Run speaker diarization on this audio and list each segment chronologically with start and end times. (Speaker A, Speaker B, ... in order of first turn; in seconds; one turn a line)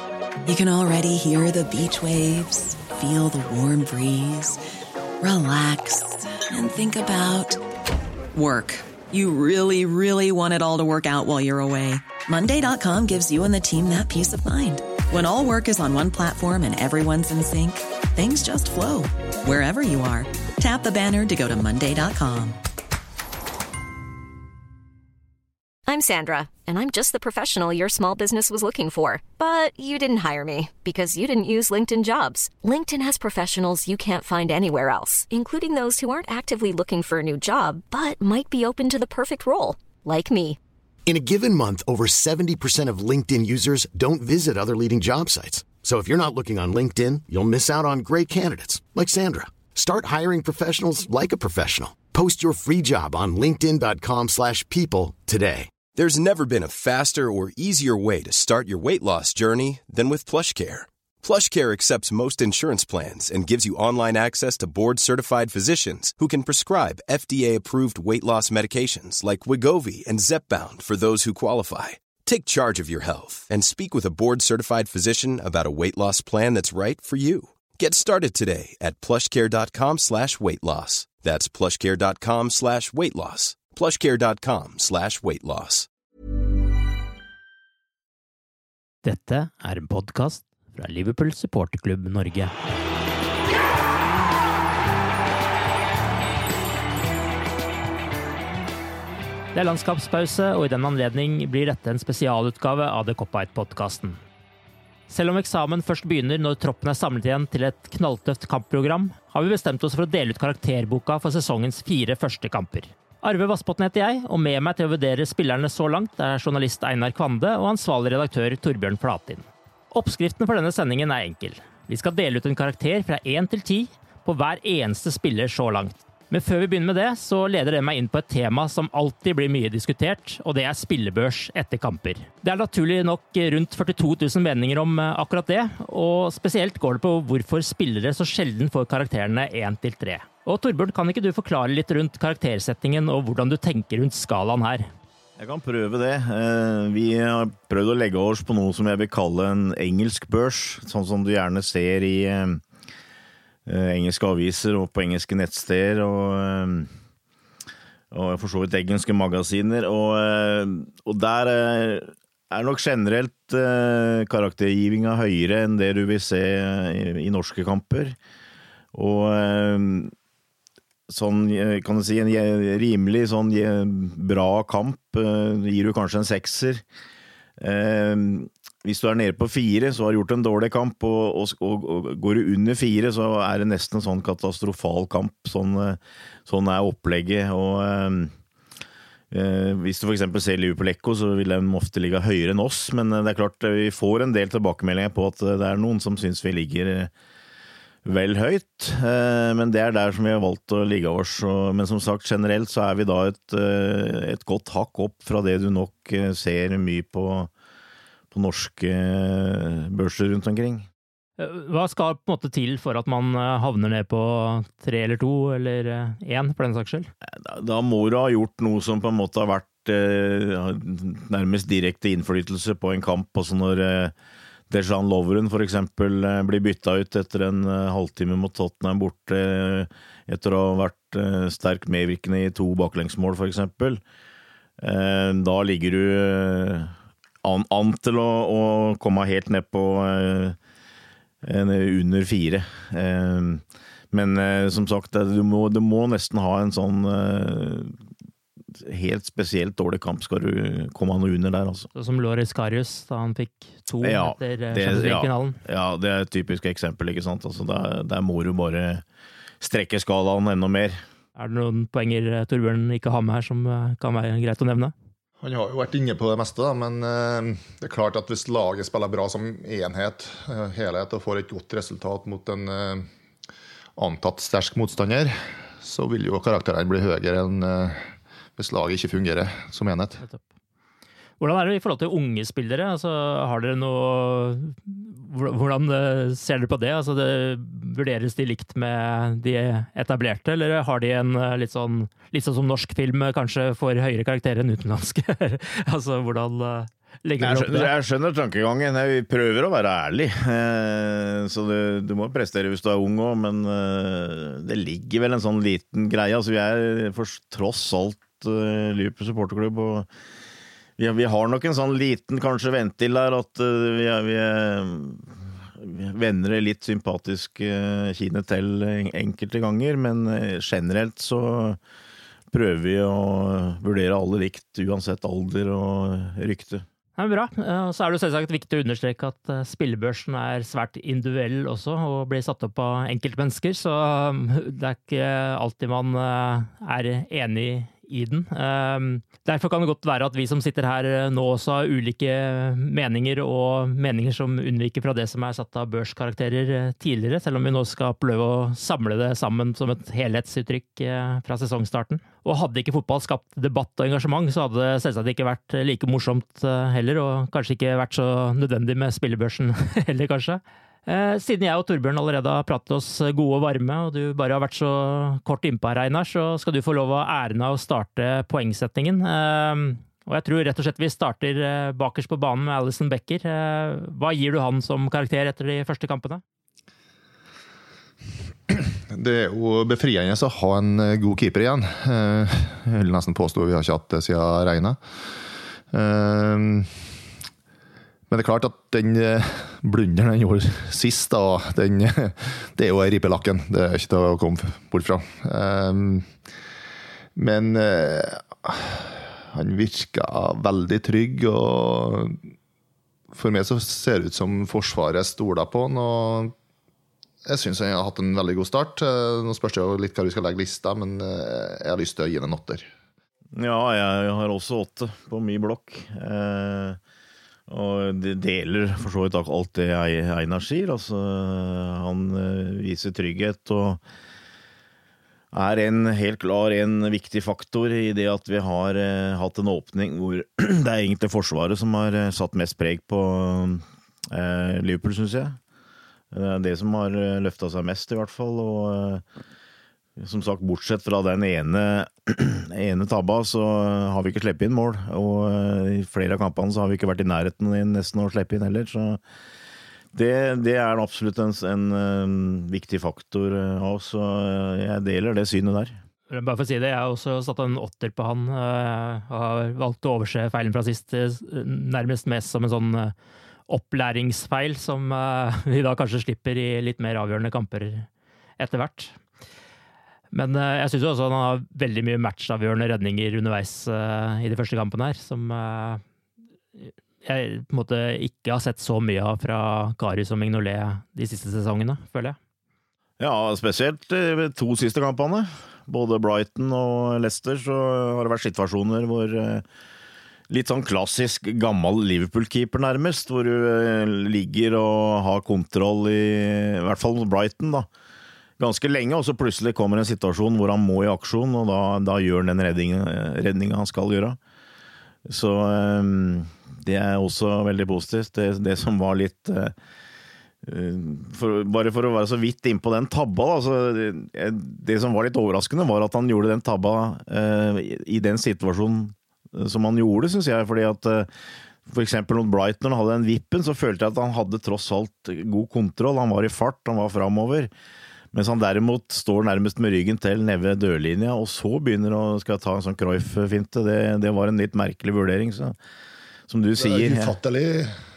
Speaker A: 0.4-4.6
Speaker A: 5.2-7.6
Speaker A: 8.3-22.6
Speaker B: 25.9-40.6
Speaker C: 41.0-55.7
Speaker D: 55.9-85.9
Speaker E: 89.0-92.5
Speaker E: 99.5-104.2
Speaker E: 105.1-144.9
Speaker F: 145.4-152.6
Speaker F: 153.7-156.9
Speaker F: 158.1-168.2
Speaker F: 168.9-170.1
Speaker F: 171.1-176.8
Speaker F: 177.6-188.3
Speaker F: 189.3-197.1
Speaker F: 198.0-207.5
Speaker F: 208.3-210.8
Speaker E: 211.4-217.1
Speaker F: 217.3-224.1
Speaker F: 224.7-234.0
Speaker F: 234.8-240.6
Speaker F: 241.4-247.9
Speaker F: 248.8-251.9
Speaker E: 251.9-255.6
Speaker F: 254.0-259.0
Speaker F: 259.6-261.0
Speaker E: 261.4-264.9
Speaker G: 265.4-273.1
Speaker G: 273.9-280.2
Speaker E: 281.4-297.9
Speaker F: 297.4-310.1
Speaker F: 311.0-321.8
Speaker F: 322.5-326.8
Speaker E: 327.2-376.4
Speaker G: 378.7-385.0
Speaker G: 385.9-387.1
Speaker G: 388.3-396.3
Speaker G: 397.3-402.5
Speaker G: 403.3-406.5
Speaker G: 407.4-412.9
Speaker F: 413.6-417.0
Speaker F: 417.7-424.0
Speaker F: 425.5-435.6
Speaker F: 436.3-439.2
Speaker F: 440.2-449.2
Speaker F: 450.1-455.9
Speaker E: 456.3-463.1
Speaker E: 463.7-468.1
Speaker E: 468.6-469.2
Speaker E: 470.3-476.0
Speaker E: 476.8-482.4
Speaker F: 483.2-489.6
Speaker F: 490.5-497.9
Speaker F: 498.6-504.4
Speaker F: 505.2-509.7
Speaker F: 510.6-521.3
Speaker F: 521.9-527.7
Speaker F: 528.3-535.8
Speaker F: 536.5-537.3
Speaker G: 536.8-538.0